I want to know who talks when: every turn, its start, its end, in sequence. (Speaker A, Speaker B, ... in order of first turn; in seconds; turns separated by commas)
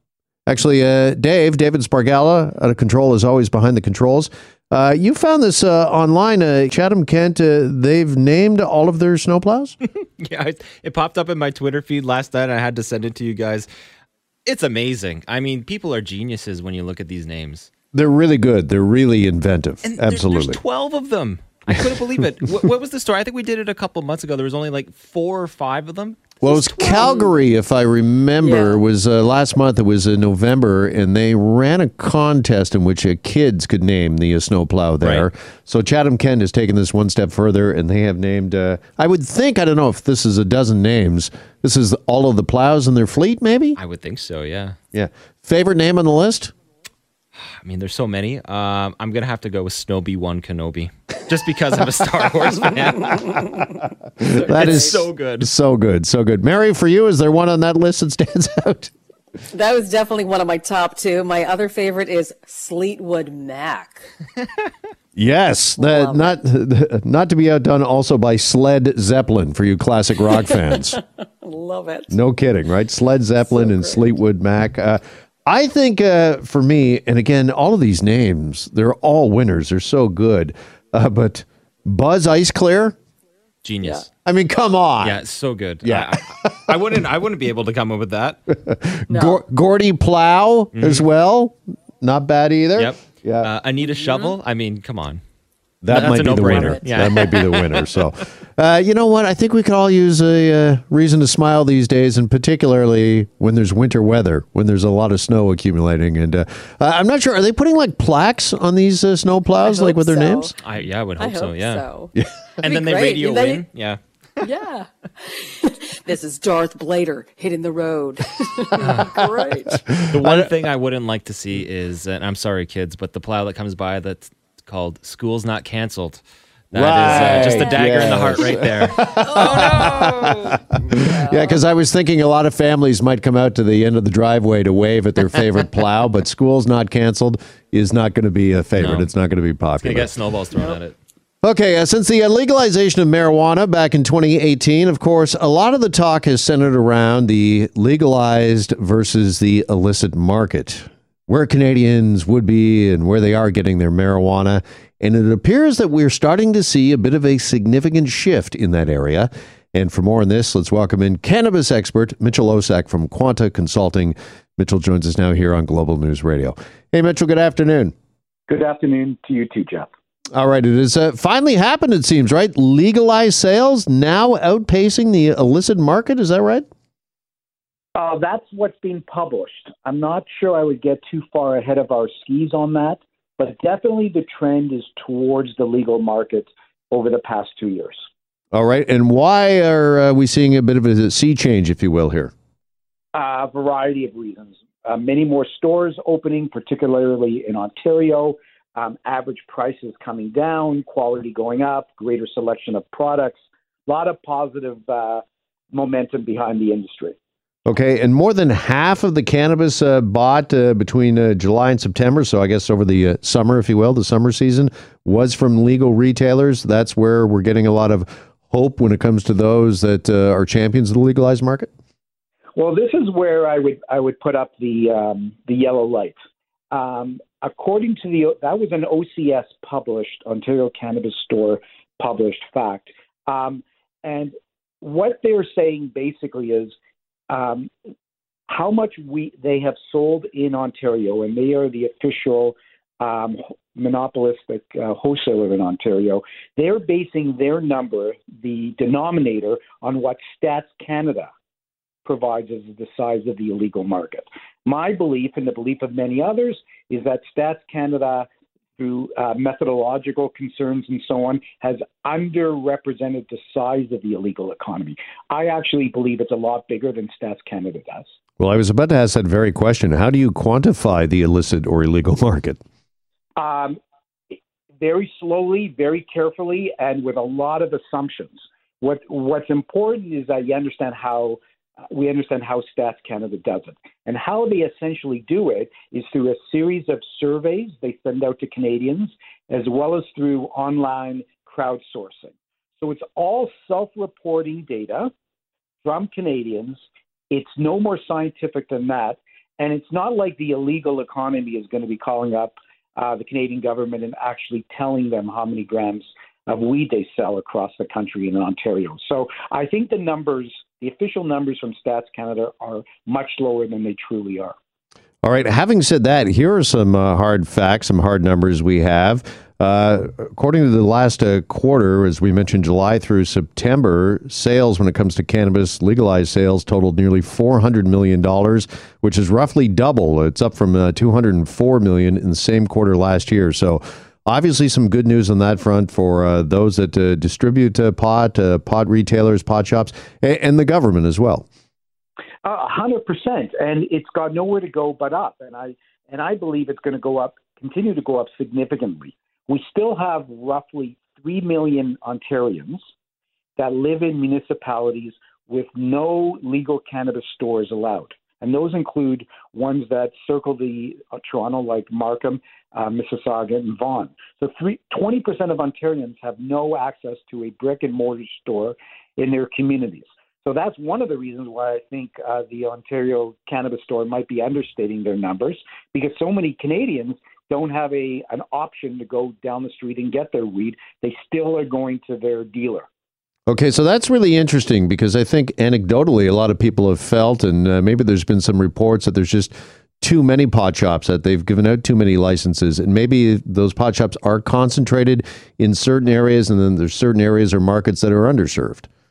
Speaker A: 0.5-9.8, Speaker B: 10.2-13.7, Speaker B: 14.4-17.7, Speaker A: 17.9-20.6, Speaker B: 19.8-26.7, Speaker A: 26.4-43.8, Speaker C: 26.5-27.4, Speaker C: 28.4-28.8, Speaker B: 43.8-44.8, Speaker A: 44.9-46.5, Speaker B: 47.6-55.5, Speaker A: 54.2-58.9, Speaker C: 59.5-64.1, Speaker A: 65.1-71.0, Speaker C: 65.8-66.4, Speaker C: 70.2-72.2, Speaker A: 72.1-82.9, Speaker C: 73.3-74.2, Speaker B: 83.6-84.1, Speaker A: 84.2-85.2, Speaker B: 85.0-88.4, Speaker A: 85.8-86.7, Speaker A: 88.7-93.5, Speaker C: 89.1-89.4, Speaker B: 90.7-91.0, Speaker B: 92.8-95.2, Speaker C: 93.8-94.3, Speaker A: 95.8-110.5, Speaker B: 95.9-97.8, Speaker C: 96.5-96.9, Speaker C: 109.6-110.5, Speaker B: 110.6-111.9, Speaker C: 111.2-113.6, Speaker A: 112.2-112.4, Speaker B: 112.6-114.4, Speaker C: 114.4-119.8, Speaker B: 120.1-129.2, Speaker A: 120.2-120.5, Speaker A: 126.7-140.1, Speaker C: 127.4-127.7, Speaker C: 129.2-130.3, Speaker C: 130.9-131.6, Speaker B: 138.8-139.1, Speaker B: 139.8-140.9, Speaker A: 141.4-167.9, Speaker D: 168.5-169.9, Speaker A: 170.3-176.7, Speaker D: 177.9-188.0, Speaker A: 188.5-192.3, Speaker D: 193.1-207.2, Speaker A: 207.7-221.7, Speaker D: 222.6-226.1, Speaker D: 226.7-236.7, Speaker D: 237.3-237.7, Speaker D: 238.5-251.3, Speaker D: 252.0-258.2, Speaker D: 258.8-268.1, Speaker A: 268.4-272.6, Speaker D: 273.4-273.8, Speaker D: 274.3-295.1, Speaker D: 295.8-314.5, Speaker A: 315.2-341.4, Speaker D: 342.4-352.8, Speaker D: 353.6-382.9, Speaker A: 383.5-398.9